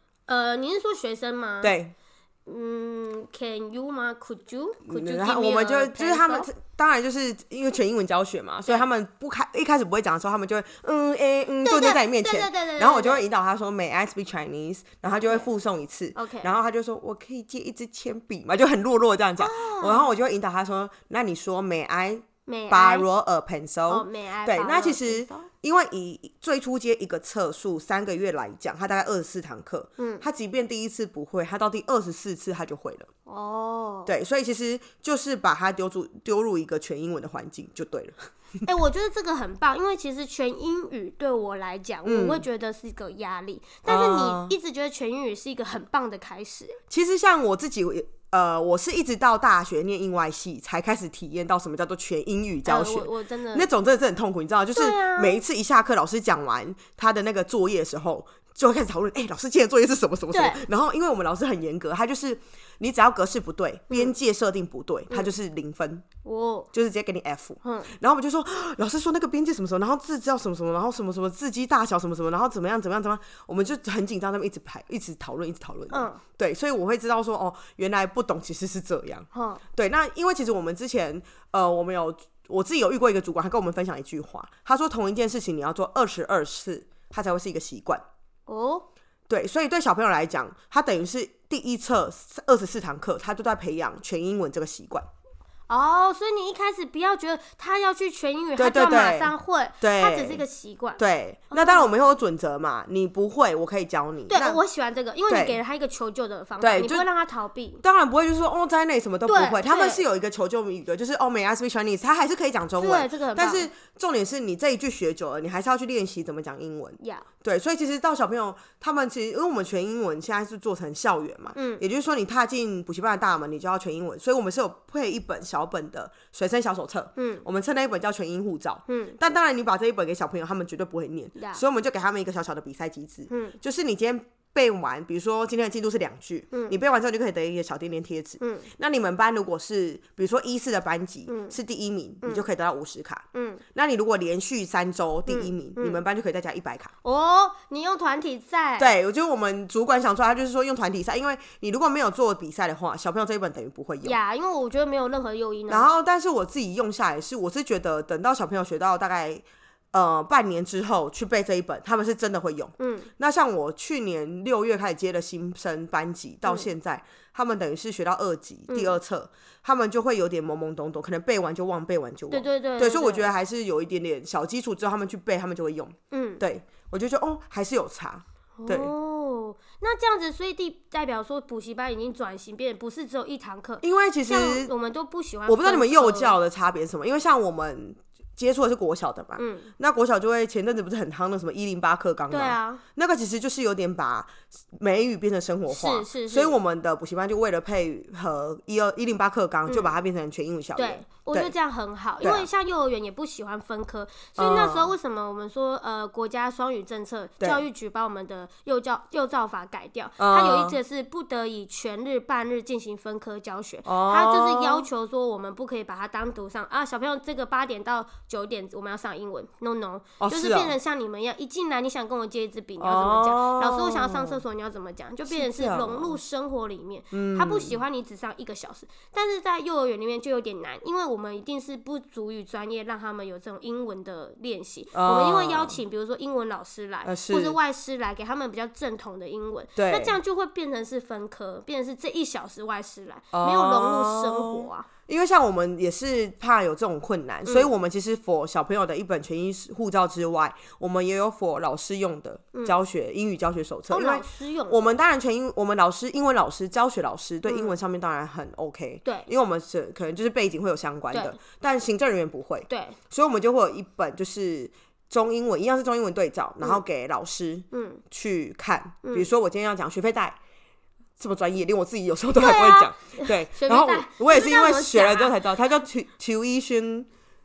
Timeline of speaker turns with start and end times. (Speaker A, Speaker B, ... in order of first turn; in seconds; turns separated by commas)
Speaker A: 0.3-1.8, Speaker B: 1.6-1.9, Speaker A: 2.5-6.5, Speaker B: 4.8-33.1, Speaker A: 11.6-13.2, Speaker A: 15.1-15.5, Speaker A: 16.2-16.5, Speaker A: 19.4-20.1, Speaker A: 22.4-23.1, Speaker A: 23.9-25.5, Speaker A: 30.0-30.2, Speaker A: 33.2-34.1, Speaker B: 34.1-38.7, Speaker A: 38.6-46.8, Speaker B: 42.0-42.5, Speaker B: 43.9-44.5, Speaker B: 46.9-66.0, Speaker A: 52.6-53.7, Speaker A: 54.8-55.4, Speaker A: 60.3-60.7, Speaker A: 66.2-66.7, Speaker B: 66.7-88.0, Speaker A: 67.6-67.9, Speaker A: 75.9-76.2, Speaker A: 79.3-79.6, Speaker A: 88.5-88.9, Speaker B: 89.3-95.1, Speaker A: 95.7-102.2, Speaker B: 98.6-100.5, Speaker B: 101.0-104.6, Speaker A: 104.3-107.8, Speaker B: 105.3-105.6, Speaker B: 106.6-107.1, Speaker B: 107.8-143.2, Speaker A: 109.3-110.0, Speaker A: 112.8-113.7, Speaker A: 117.0-117.3, Speaker A: 121.5-121.8, Speaker A: 127.2-127.5, Speaker A: 128.9-129.2, Speaker A: 131.4-131.6, Speaker A: 133.3-133.6, Speaker A: 136.5-136.8, Speaker A: 138.4-138.7, Speaker A: 141.3-141.6, Speaker A: 143.3-143.6, Speaker B: 143.8-146.9, Speaker A: 145.3-146.0, Speaker A: 147.0-148.9, Speaker B: 148.8-154.2, Speaker A: 154.0-155.9, Speaker B: 155.7-178.9, Speaker A: 162.8-163.1, Speaker A: 168.7-169.0, Speaker A: 172.3-173.3, Speaker A: 176.1-176.4, Speaker A: 178.6-186.4, Speaker B: 183.8-184.7, Speaker B: 185.5-201.5, Speaker A: 189.4-189.7, Speaker A: 192.3-192.8, Speaker A: 195.7-196.6, Speaker A: 199.7-199.9, Speaker A: 200.8-244.9, Speaker B: 202.2-202.5, Speaker B: 204.4-204.9, Speaker B: 207.4-207.6, Speaker B: 210.2-210.8, Speaker B: 213.8-214.9, Speaker B: 220.2-220.8, Speaker B: 222.8-224.4, Speaker B: 225.3-226.2, Speaker B: 227.1-227.8, Speaker B: 234.9-235.8, Speaker B: 237.0-237.6, Speaker B: 239.8-240.2, Speaker B: 243.3-270.4, Speaker A: 247.4-247.7, Speaker A: 253.9-255.0, Speaker A: 257.4-257.8, Speaker A: 261.1-261.4, Speaker A: 262.7-263.0, Speaker A: 267.7-268.0, Speaker B: 271.2-277.1, Speaker A: 272.4-275.4